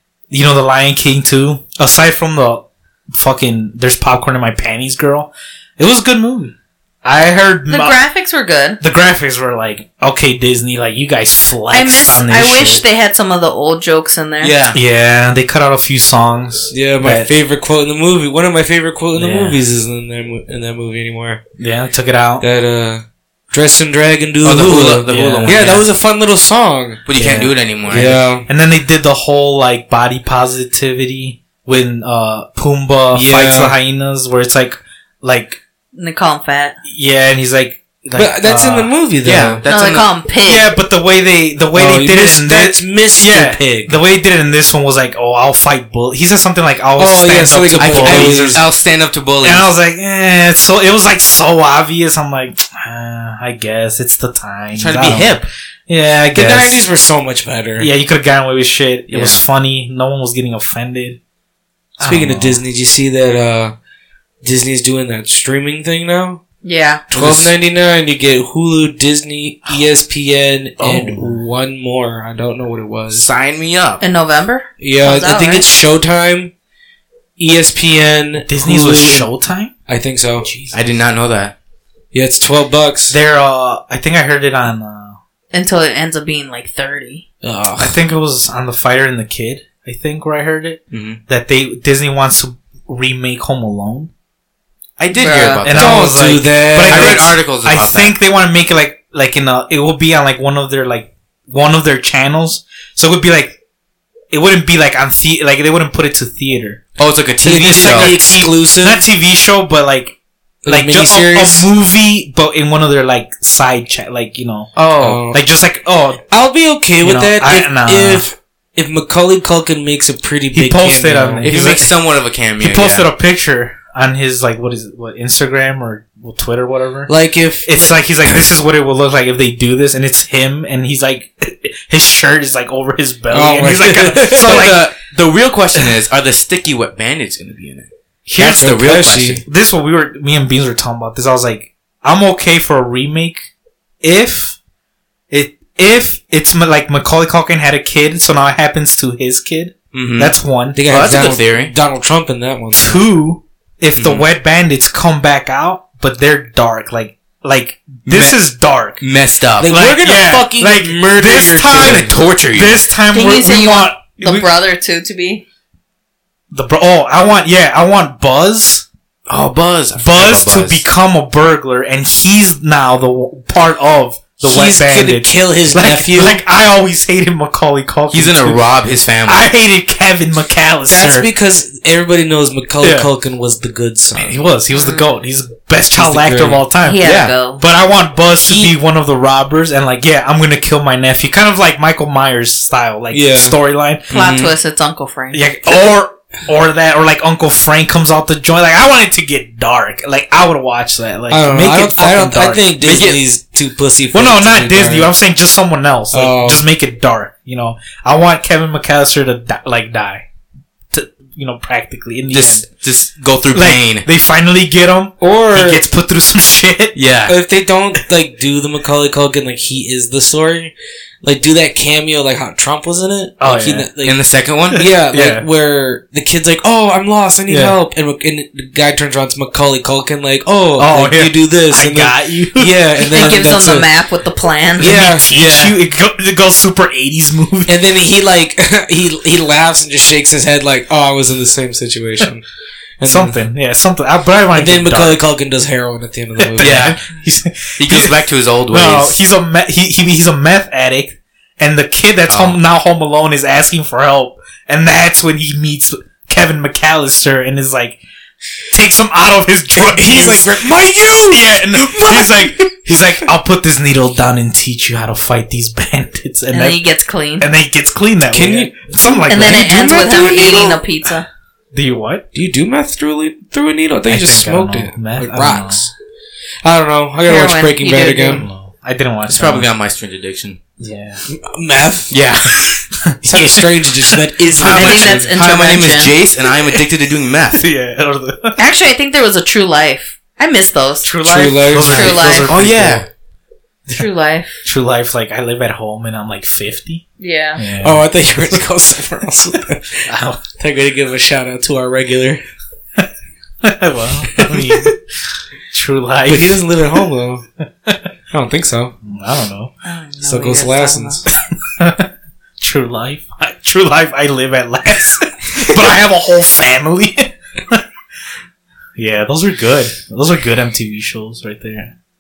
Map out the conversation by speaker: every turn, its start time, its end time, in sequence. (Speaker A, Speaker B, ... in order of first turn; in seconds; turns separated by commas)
Speaker A: 0.3-8.0, Speaker B: 7.7-8.8, Speaker A: 8.8-12.8, Speaker B: 11.7-14.6, Speaker C: 14.4-14.8, Speaker A: 14.7-17.3, Speaker D: 16.7-21.4, Speaker A: 19.1-19.6, Speaker A: 21.6-22.4, Speaker D: 22.4-27.0, Speaker C: 24.4-25.9, Speaker A: 25.1-25.8, Speaker C: 27.1-28.2, Speaker A: 27.1-27.5, Speaker D: 27.9-28.5, Speaker A: 28.5-35.6, Speaker D: 33.1-33.8, Speaker B: 35.9-36.8, Speaker A: 36.9-38.9, Speaker D: 38.1-39.6, Speaker C: 39.2-40.1, Speaker B: 39.7-40.7, Speaker A: 40.5-48.6, Speaker D: 41.7-44.0, Speaker D: 47.0-48.6, Speaker C: 47.8-49.7, Speaker A: 49.4-56.8, Speaker C: 54.8-55.4, Speaker D: 56.4-57.9, Speaker A: 57.8-61.2, Speaker C: 59.1-59.4, Speaker A: 62.0-62.6, Speaker D: 62.0-63.8, Speaker D: 64.4-66.4, Speaker B: 66.6-67.0, Speaker D: 67.1-73.3, Speaker A: 67.2-67.4, Speaker C: 67.2-67.5, Speaker A: 70.8-71.4, Speaker C: 73.1-74.0, Speaker B: 74.0-75.7, Speaker D: 74.8-76.5, Speaker D: 77.4-79.3, Speaker A: 78.5-79.7, Speaker D: 79.9-80.5, Speaker A: 80.4-80.8, Speaker C: 80.7-81.5, Speaker D: 82.1-83.2, Speaker A: 83.1-85.2, Speaker B: 85.5-87.2, Speaker D: 87.4-88.0, Speaker A: 87.8-94.1, Speaker C: 90.9-91.2, Speaker C: 95.0-96.1, Speaker B: 95.1-95.6, Speaker A: 95.6-103.6, Speaker D: 95.7-97.2, Speaker C: 96.9-98.1, Speaker A: 104.3-106.8, Speaker C: 107.0-108.2, Speaker D: 107.4-109.0, Speaker A: 107.6-110.1, Speaker D: 110.6-111.7, Speaker A: 110.7-114.7, Speaker C: 114.8-115.2, Speaker D: 115.0-115.4, Speaker A: 115.3-116.2, Speaker D: 116.3-121.5, Speaker A: 117.0-118.3, Speaker A: 120.5-122.0, Speaker C: 121.4-123.1, Speaker A: 122.6-127.1, Speaker D: 127.1-128.4, Speaker A: 127.7-134.8, Speaker D: 133.3-134.7, Speaker C: 134.2-137.9, Speaker A: 138.3-138.8, Speaker D: 138.4-139.4, Speaker C: 138.4-139.4, Speaker A: 139.4-143.5, Speaker A: 144.0-144.6, Speaker A: 145.3-150.8, Speaker C: 149.9-150.3, Speaker D: 150.8-153.0, Speaker C: 150.9-151.7, Speaker A: 152.8-159.0, Speaker C: 153.9-154.3, Speaker C: 158.1-158.4, Speaker C: 159.0-159.7, Speaker D: 159.6-162.1, Speaker A: 159.6-164.5, Speaker C: 161.7-162.8, Speaker B: 163.1-165.4, Speaker A: 166.5-168.8, Speaker C: 169.3-170.8, Speaker A: 170.0-178.6, Speaker D: 174.4-176.4, Speaker C: 178.1-179.5, Speaker A: 179.3-181.3, Speaker D: 180.9-184.3, Speaker A: 182.8-183.1, Speaker A: 184.2-187.1, Speaker B: 184.7-185.1, Speaker D: 185.9-186.6, Speaker B: 186.8-187.6, Speaker C: 187.0-187.3, Speaker A: 187.6-194.1, Speaker D: 188.4-188.7, Speaker D: 193.1-193.6, Speaker C: 194.1-194.6, Speaker B: 194.1-195.5, Speaker A: 195.3-203.0, Speaker D: 201.3-205.1, Speaker C: 202.8-203.2, Speaker A: 204.1-210.3, Speaker D: 206.1-206.6, Speaker A: 210.9-212.6, Speaker C: 212.3-214.1, Speaker A: 213.5-216.9, Speaker D: 215.2-215.8, Speaker C: 216.9-217.4, Speaker D: 217.3-224.2, Speaker A: 223.4-223.9, Speaker C: 224.0-224.8, Speaker A: 224.7-225.4, Speaker D: 224.7-233.9, Speaker A: 227.5-227.8, Speaker A: 230.8-233.4, Speaker B: 233.0-235.0, Speaker D: 234.8-235.8, Speaker A: 234.8-237.8, Speaker D: 237.7-242.4, Speaker D: 243.0-243.4, Speaker A: 243.0-245.2, Speaker D: 244.5-246.9, Speaker A: 246.4-258.0, Speaker C: 246.6-247.0, Speaker C: 247.8-249.2, Speaker C: 252.3-252.6, Speaker A: 258.7-260.5, Speaker D: 259.8-263.1, Speaker A: 261.3-266.8, Speaker B: 266.5-267.5, Speaker A: 267.4-270.1, Speaker D: 268.3-270.8, Speaker B: 269.3-271.3, Speaker A: 271.7-272.2, Speaker D: 272.3-275.9, Speaker A: 274.1-275.9, Speaker D: 276.6-278.5, Speaker B: 277.2-278.5, Speaker A: 278.3-279.7, Speaker C: 279.3-280.6, Speaker A: 280.8-281.2, Speaker D: 281.3-282.1, Speaker C: 282.1-282.5, Speaker A: 282.1-285.3, Speaker D: 283.2-285.3, Speaker B: 284.6-286.1, Speaker C: 284.8-287.7, Speaker A: 287.5-288.6, Speaker B: 288.6-291.2, Speaker A: 291.0-293.1, Speaker D: 291.2-292.4, Speaker B: 291.9-292.5, Speaker C: 292.3-293.1, Speaker B: 293.9-294.6, Speaker A: 294.6-297.0, Speaker B: 297.2-297.6, Speaker A: 297.6-298.6, Speaker D: 297.8-302.4, Speaker A: 300.1-300.4, Speaker A: 303.6-305.0, Speaker D: 304.4-304.9, Speaker A: 305.7-306.6, Speaker D: 306.3-307.4, Speaker A: 307.6-308.0, Speaker D: 308.3-308.9, Speaker A: 309.0-309.7, Speaker B: 309.8-311.2, Speaker D: 310.2-311.3, Speaker A: 311.8-312.1, Speaker A: 312.6-317.8, Speaker A: 318.9-321.9